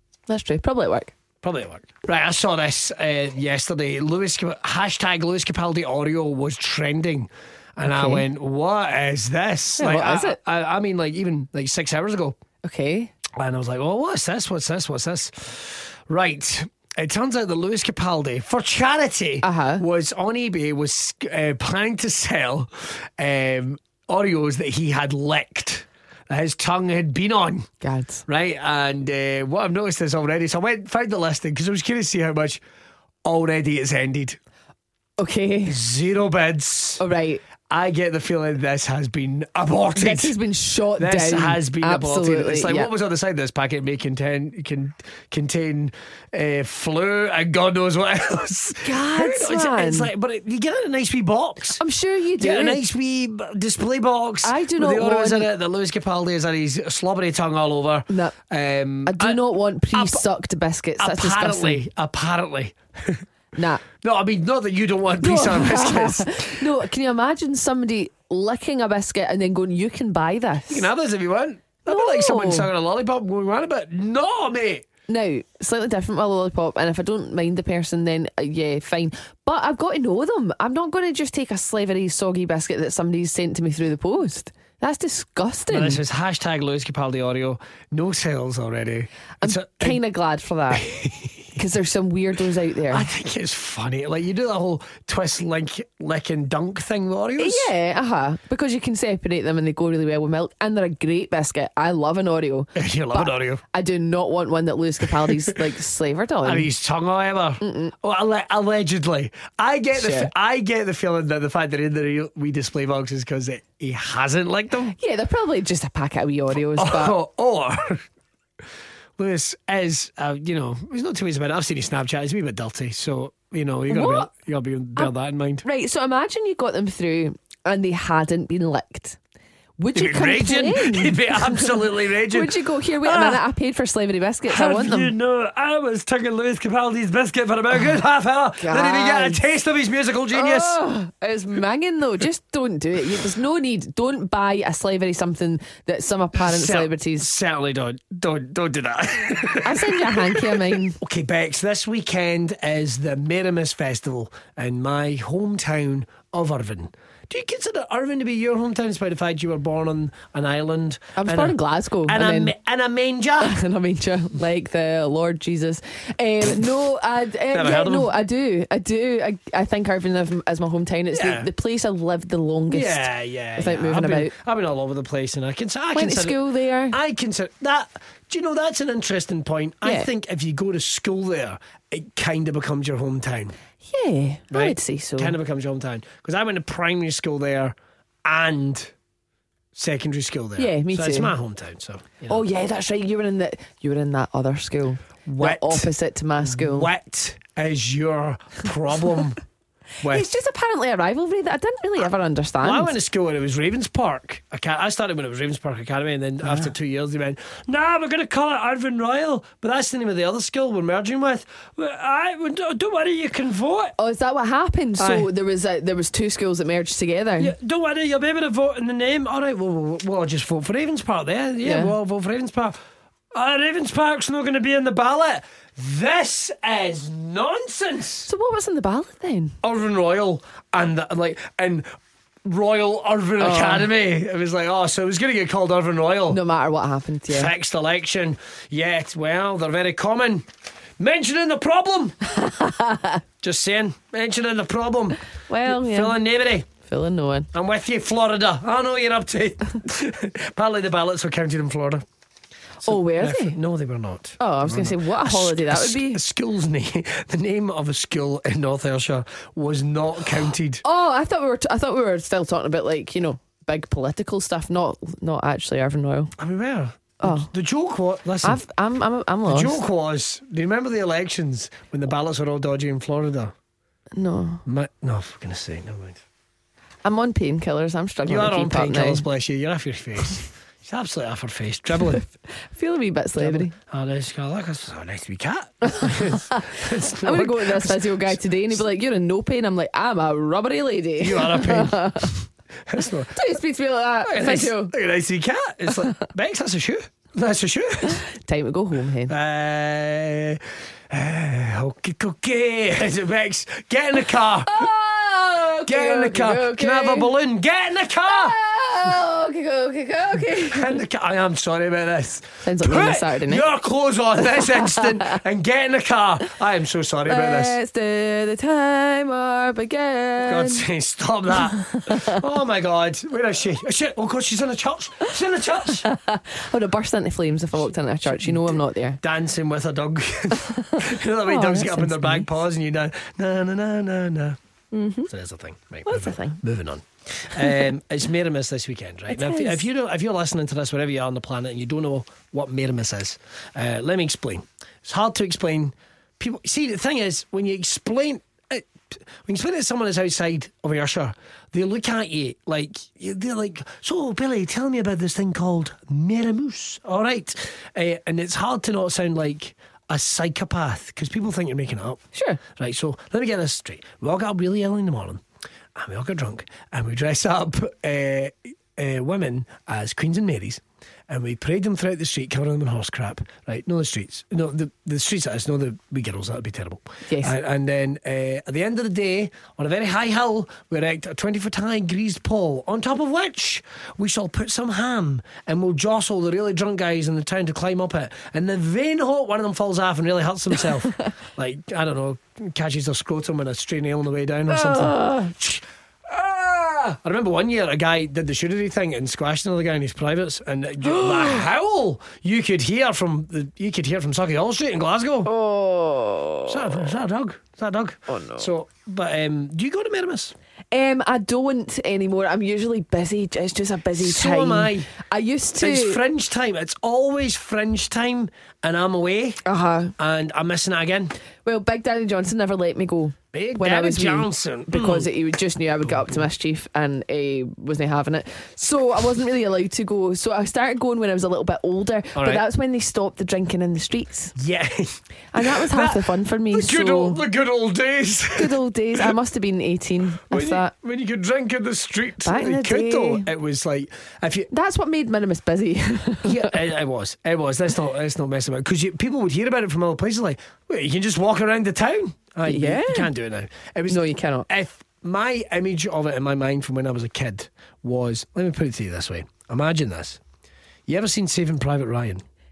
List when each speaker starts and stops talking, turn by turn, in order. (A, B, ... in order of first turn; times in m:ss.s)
0:00.3-0:01.1 A
0:01.4-0:12.4 B
0:07.8-0:08.2 A
0:09.8-0:10.4 A
0:12.6-0:13.1 A
0:13.4-0:27.7 B
0:19.4-0:19.8 A
0:27.8-0:28.2 A
0:28.2-0:32.6 B
0:33.2-0:34.4 B
0:35.2-0:35.8 A
0:35.6-0:37.0 B
0:37.0-0:37.4 A
0:37.7-0:40.4 B
0:40.0-0:42.9 A
0:41.0-0:51.8 B
0:48.8-0:50.1 A
0:51.8-0:52.8 A
0:52.4-1:00.2 B
0:54.4-0:55.5 A
0:58.1-0:58.3 A
0:59.1-1:01.8 A
1:01.0-1:03.2 B
1:03.5-1:03.8 A
1:04.0-1:06.6 B
1:05.2-1:10.9 A
1:10.7-1:14.9 B
1:11.9-1:12.7 A
1:15.1-1:26.0 A
1:25.7-1:30.0 B
1:29.4-1:30.9 A
1:30.8-1:31.5 B
1:31.6-1:33.1 A
1:32.9-1:37.7 B
1:37.4-1:46.7 A
1:42.8-1:43.6 B
1:46.4-1:54.9 B
1:47.6-1:47.9 A
1:49.9-1:50.3 A
1:54.9-1:57.1 A
1:56.8-1:58.0 B
1:59.2-2:05.6 B
2:03.9-2:04.3 A
2:05.6-2:09.2 A
2:09.8-2:15.1 A
2:09.9-2:13.4 B
2:14.5-2:20.8 B
2:18.6-2:19.4 A
2:20.3-2:27.3 A
2:26.4-2:43.5 B
2:29.6-2:31.0 A
2:41.2-2:42.5 A
2:43.4-2:53.0 A
2:47.5-2:48.1 B
2:51.1-2:51.5 B
2:52.7-3:03.5 B
2:53.6-2:54.3 A
2:55.9-2:57.0 A
3:03.8-3:05.4 A
3:04.5-3:08.9 B
3:09.8-3:12.4 B
3:10.6-3:11.3 A
3:12.3-3:16.9 A
3:15.2-3:15.9 B
3:16.4-3:19.4 B
3:20.0-3:20.3 B
3:20.0-3:22.9 A
3:22.6-3:34.0 B
3:26.4-3:26.7 A
3:34.0-3:37.5 A
3:35.0-3:35.3 B
3:37.4-3:42.8 B
3:41.6-3:41.9 A
3:43.3-3:48.3 B
3:48.3-3:49.6 A
3:49.6-3:51.9 B
3:52.4-3:56.4 B
3:53.4-3:53.9 A
3:56.3-3:57.5 A
3:57.3-4:00.4 B
4:01.0-4:02.2 B
4:02.3-4:03.2 A
4:03.4-4:06.7 B
4:05.5-4:06.2 A
4:06.7-4:07.5 A
4:07.5-4:12.0 B
4:12.8-4:20.8 B
4:12.8-4:13.6 A
4:14.4-4:16.2 A
4:20.8-4:26.3 A
4:26.4-4:28.6 B
4:27.2-4:27.5 A
4:28.4-4:29.8 A
4:29.4-4:33.5 B
4:34.2-4:34.6 A
4:34.6-4:36.2 B
4:37.0-4:39.2 A
4:38.2-4:42.2 B
4:42.0-4:43.7 A
4:43.4-4:48.4 B
4:45.9-4:52.3 A
4:51.2-4:53.4 B
4:53.3-4:54.9 A
4:54.2-4:58.3 B
4:58.0-4:59.3 A
4:59.3-5:04.9 B
5:04.6-5:07.3 A
5:05.8-5:08.6 B
5:08.2-5:11.0 A
5:10.5-5:17.8 B
5:12.6-5:13.6 A
5:14.5-5:15.4 A
5:17.2-5:20.8 A
5:20.4-5:26.1 B
5:21.7-5:22.4 A
5:25.9-5:29.2 A
5:28.3-5:34.6 B
5:30.6-5:32.5 A
5:34.9-5:35.3 A
5:35.3-6:02.2 B
5:36.1-5:36.6 A
5:39.3-5:39.8 A
6:02.3-6:02.6 A
6:02.8-6:05.4 B
6:05.9-6:45.5 B
6:17.3-6:17.6 A
6:34.7-6:35.5 A
6:41.0-6:41.7 A
6:45.4-6:47.1 A
6:46.7-6:50.6 B
6:48.3-6:48.7 A
6:50.9-6:56.2 A
6:54.2-6:55.1 B
6:55.8-6:59.6 B
6:59.6-7:00.2 A
7:00.2-7:01.3 B
7:01.6-7:14.5 A
7:03.5-7:05.3 B
7:12.3-7:12.6 B
7:14.6-7:19.3 B
7:15.5-7:17.4 A
7:18.6-7:20.9 A
7:20.5-7:24.7 B
7:22.4-7:23.5 A
7:24.7-7:26.7 A
7:26.4-7:40.4 B
7:32.6-7:33.3 A
7:34.1-7:34.7 A
7:41.1-7:42.4 B